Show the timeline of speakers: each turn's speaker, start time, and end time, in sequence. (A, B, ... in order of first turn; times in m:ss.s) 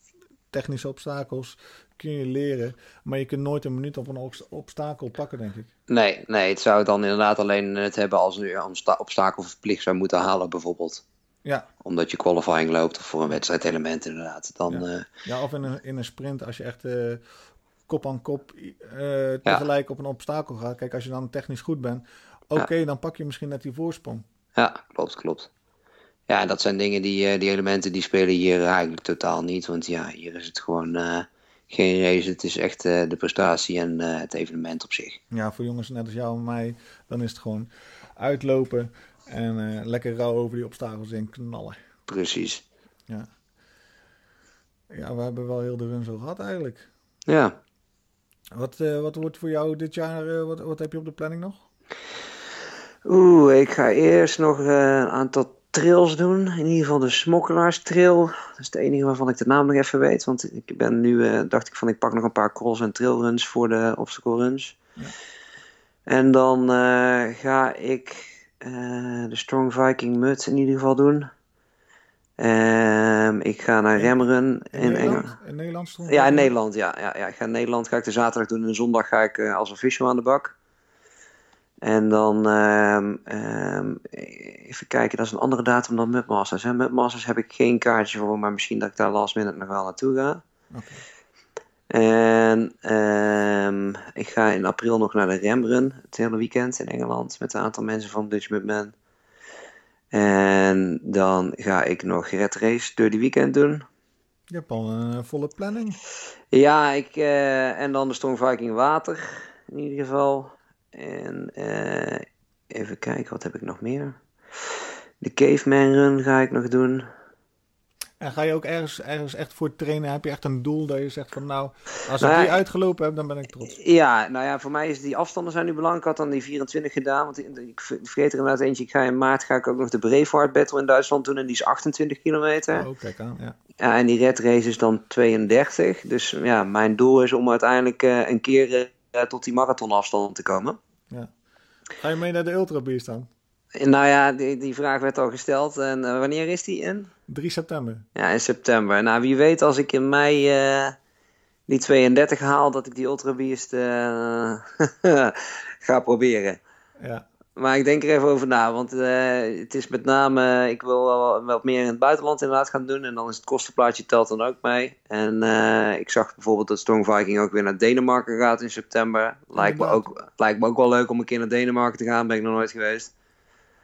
0:00.5-0:05.7 A
0:05.9-0:11.0 B
0:11.8-0:15.1 B
0:14.7-0:17.2 A
0:17.9-0:24.2 A
0:24.6-0:25.5 B
0:26.3-0:35.2 B
0:35.3-0:41.8 A
0:42.1-0:42.6 B
0:44.9-0:46.9 A
0:47.3-0:47.6 B
0:48.5-0:51.6 A
0:53.1-1:04.8 B
1:06.1-1:11.3 B
1:12.4-1:15.3 B
1:14.7-1:16.5 A
1:16.1-1:20.6 B
1:21.8-1:30.4 B
1:30.7-1:31.0 A
1:31.9-1:38.9 B
1:40.1-1:43.8 B
1:44.5-1:46.0 A
1:46.5-1:54.2 B
1:55.2-1:57.1 B
1:58.2-2:03.8 A
2:02.2-2:02.6 B
2:03.7-2:12.9 B
2:12.7-2:13.6 A
2:13.8-2:20.8 B
2:22.0-2:23.3 A
2:23.8-2:27.1 B
2:27.3-2:28.0 A
2:28.1-2:31.0 B
2:31.7-2:36.6 B
2:37.0-2:37.2 A
2:37.6-2:53.1 B
2:49.6-2:50.1 A